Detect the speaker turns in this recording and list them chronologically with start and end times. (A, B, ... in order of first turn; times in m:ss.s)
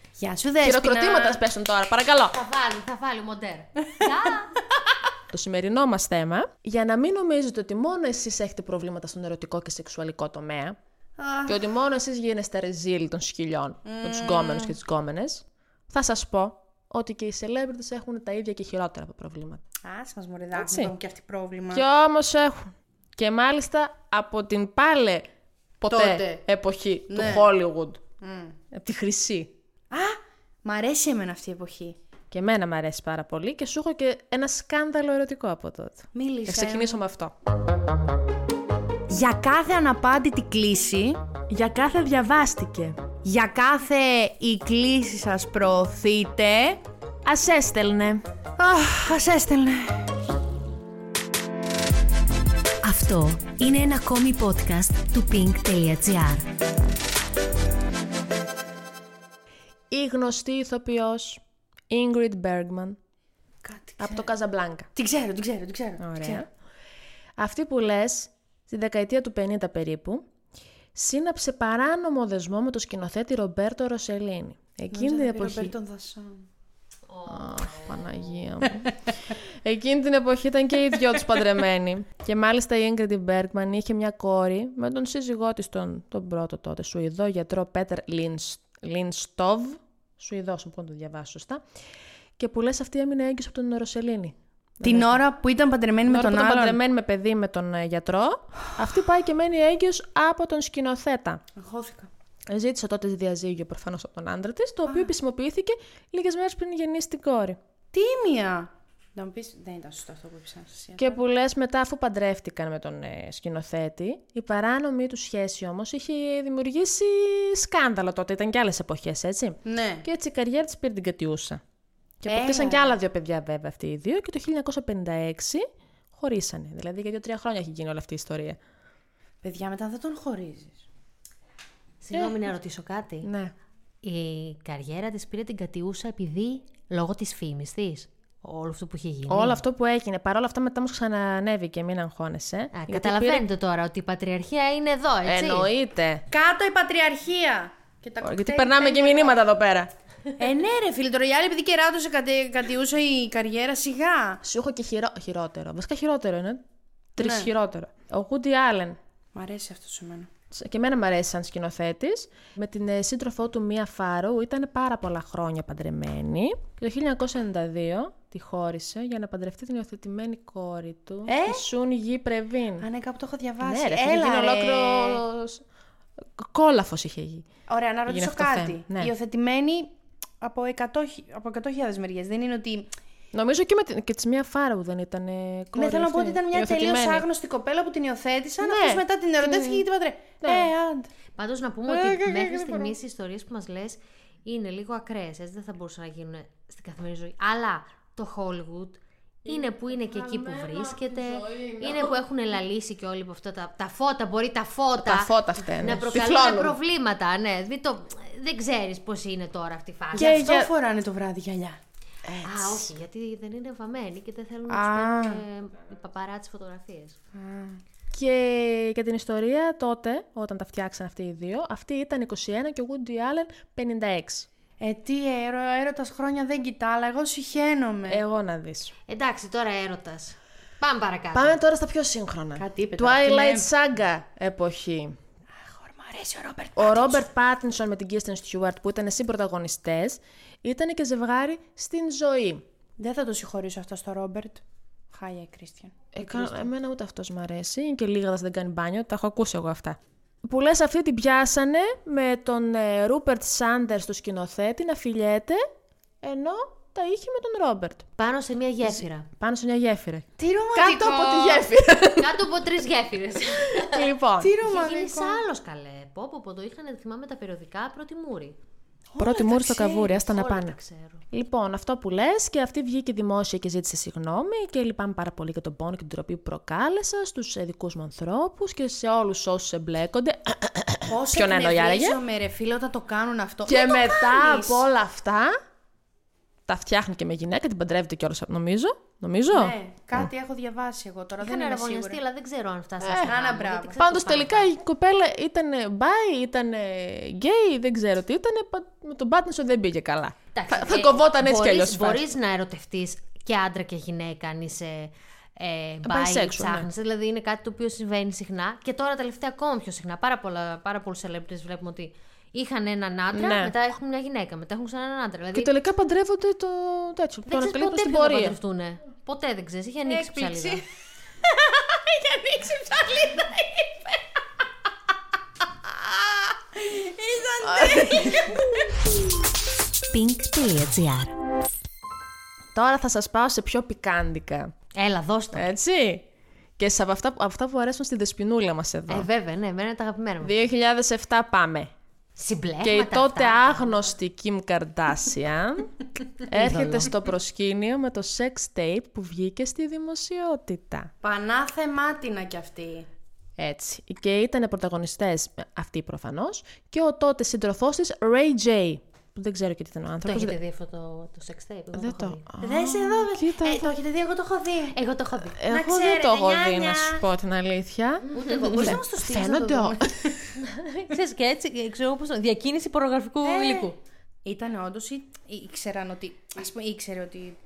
0:00.2-0:01.4 A
0:00.6-0:02.3 B
0:02.3-0:04.6 C
0:05.3-0:10.8 B
0:11.2-0:11.6 A
0:11.4-0:19.6 B
0:13.8-0:14.8 A
0:19.8-0:21.8 A
0:20.5-0:20.9 B
0:21.7-0:25.3 B
0:25.8-0:28.0 B
0:25.9-0:26.4 A
0:27.1-0:27.5 A
0:28.2-0:28.6 A
0:28.7-0:29.6 B
0:29.9-0:32.0 A
0:32.3-0:37.3 B
0:36.1-0:37.0 A
0:39.1-0:41.2 A
0:41.5-0:43.0 B
0:43.2-0:46.8 A
0:47.2-0:48.2 B
0:48.6-0:50.1 A
0:52.8-0:56.5 C
0:59.9-1:03.0 B
1:03.6-1:04.3 A
1:04.0-1:04.9 B
1:04.9-1:06.4 A
1:06.0-1:06.5 B
1:07.4-1:10.2 B
1:10.9-1:15.7 B
1:14.9-1:16.4 A
1:17.1-1:18.5 C
1:17.3-1:31.6 B
1:32.4-1:35.2 B
1:34.8-1:36.8 A
1:36.1-1:41.4 B
1:41.6-1:42.1 A
1:42.5-1:47.6 B
1:44.9-1:45.1 A
1:47.9-1:51.2 A
1:51.0-2:01.6 B
1:59.6-2:00.1 A
2:02.2-2:08.6 B
2:02.2-2:02.9 A
2:09.4-2:10.8 A
2:12.0-2:13.3 C
2:12.1-2:12.4 B
2:13.2-2:13.5 B
2:14.0-2:19.6 C
2:19.3-2:23.4 B
2:22.7-2:25.7 C
2:25.2-2:26.2 B
2:26.3-2:29.4 A
2:28.2-2:29.9 B
2:30.4-2:34.4 A
2:34.4-2:36.6 B
2:37.2-2:39.0 B
2:37.2-2:37.5 A
2:39.3-2:40.3 A
2:40.5-2:52.8 B
2:51.2-2:51.6 A
2:52.8-2:55.2 A
2:53.6-2:55.6 B
2:56.4-2:57.5 B
2:57.7-3:02.9 A
2:58.1-2:59.1 B
3:03.3-3:07.3 B
3:05.7-3:11.1 A
3:08.6-3:09.8 B
3:10.4-3:10.7 B
3:11.4-3:30.4 C
3:11.9-3:13.0 B
3:19.4-3:22.1 B
3:25.0-3:26.8 B
3:30.1-3:31.8 A
3:30.2-3:30.7 B
3:32.2-3:32.9 B
3:32.4-3:37.2 C
3:34.7-3:35.4 A
3:37.3-3:37.8 A
3:38.1-3:44.5 B
3:44.8-3:48.2 A
3:48.1-3:48.9 B
3:49.1-3:51.6 C
3:51.3-3:55.2 B
3:52.6-3:53.7 A
3:55.6-3:57.3 A
3:56.8-4:02.6 B
4:03.0-4:06.7 A
4:06.1-4:15.6 B
4:16.2-4:18.1 B
4:18.2-4:19.3 C
4:18.8-4:22.4 B
4:20.4-4:21.7 A
4:22.2-4:24.1 C
4:23.7-4:24.5 B
4:24.4-4:25.4 A
4:24.6-4:28.6 C
4:29.1-4:30.3 A
4:29.2-4:30.8 B
4:30.2-4:31.2 C
4:31.3-4:42.2 B
4:41.0-4:44.8 A
4:43.6-4:45.5 B
4:46.7-4:50.3 B
4:49.5-4:52.2 A
4:51.4-4:54.7 C
4:53.0-4:53.3 B
4:53.2-4:54.0 A
4:54.0-5:02.3 B
5:00.5-5:15.7 C
5:06.0-5:06.9 B
5:13.3-5:13.7 B
5:15.5-5:18.6 B
5:17.5-5:20.8 C
5:20.0-5:20.8 A
5:21.4-5:24.2 A
5:25.8-5:28.9 A
5:27.6-5:28.6 B
5:30.1-5:31.3 C
5:32.7-5:34.7 B
5:35.0-5:35.7 C
5:35.5-5:36.2 B
5:36.8-5:39.3 B
5:39.1-5:40.6 C
5:40.4-5:41.9 B
5:42.4-5:44.1 C
5:42.8-5:45.9 B
5:46.5-5:51.1 B
5:46.5-5:47.1 C
5:51.2-5:53.1 A
5:53.6-6:00.6 B
6:00.2-6:02.4 C
6:01.9-6:03.9 B
6:02.6-6:05.0 A
6:04.9-6:05.6 C
6:05.4-6:10.3 B
6:05.7-6:07.2 A
6:08.3-6:09.0 C
6:08.3-6:10.5 A
6:10.6-6:14.0 C
6:13.4-6:13.9 A
6:14.4-6:17.6 A